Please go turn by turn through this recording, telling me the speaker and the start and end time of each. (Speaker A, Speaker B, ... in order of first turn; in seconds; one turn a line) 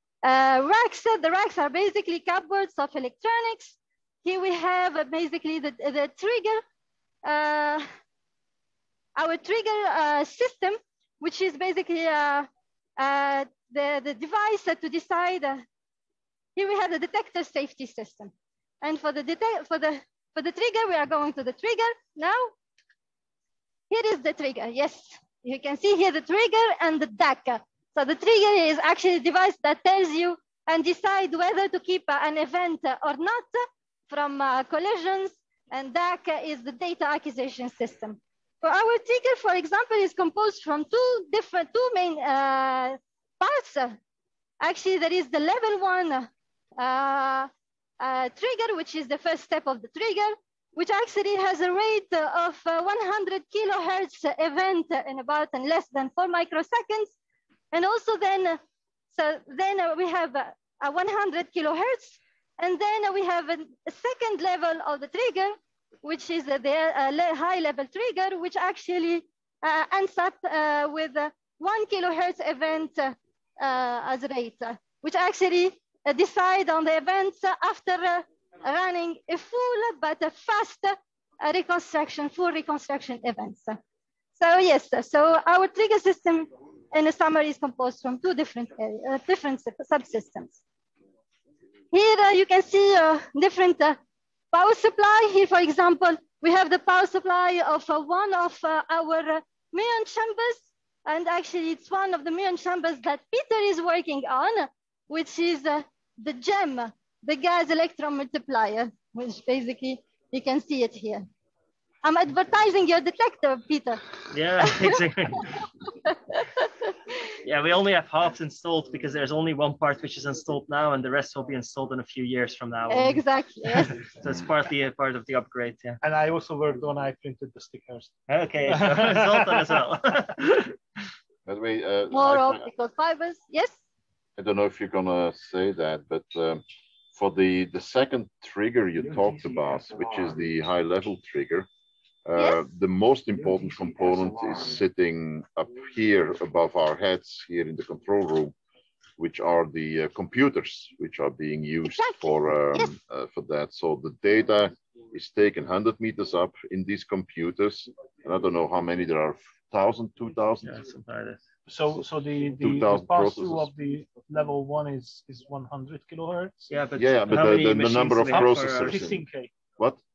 Speaker A: 0.2-6.6
Speaker A: 7.2-7.9
Speaker A: 9.2-15.6
Speaker A: 16.6-22.5
Speaker A: 23.9-44.0
Speaker A: 44.6-57.1
Speaker A: 57.7-58.6
Speaker A: 59.1-83.8
Speaker A: 84.3-90.6
Speaker A: 91.9-94.0
Speaker A: 94.5-111.3
Speaker A: 112.0-114.0
Speaker B: 114.3-115.6
Speaker A: 114.6-115.0
Speaker A: 116.1-116.7
Speaker B: 117.4-126.0
Speaker A: 122.9-124.0
Speaker C: 126.0-128.1
Speaker B: 128.3-130.7
Speaker C: 128.7-129.9
Speaker D: 131.4-132.7
Speaker A: 132.1-133.8
Speaker D: 134.4-136.6
Speaker D: 137.1-141.7
Speaker D: 142.2-148.5
Speaker A: 142.4-142.6
Speaker D: 149.2-160.8
Speaker A: 151.8-152.9
Speaker B: 160.6-161.4
Speaker C: 161.7-166.7
Speaker D: 162.6-163.7
Speaker B: 166.7-169.0
Speaker D: 166.9-169.2
Speaker C: 167.3-167.6
Speaker C: 168.3-169.5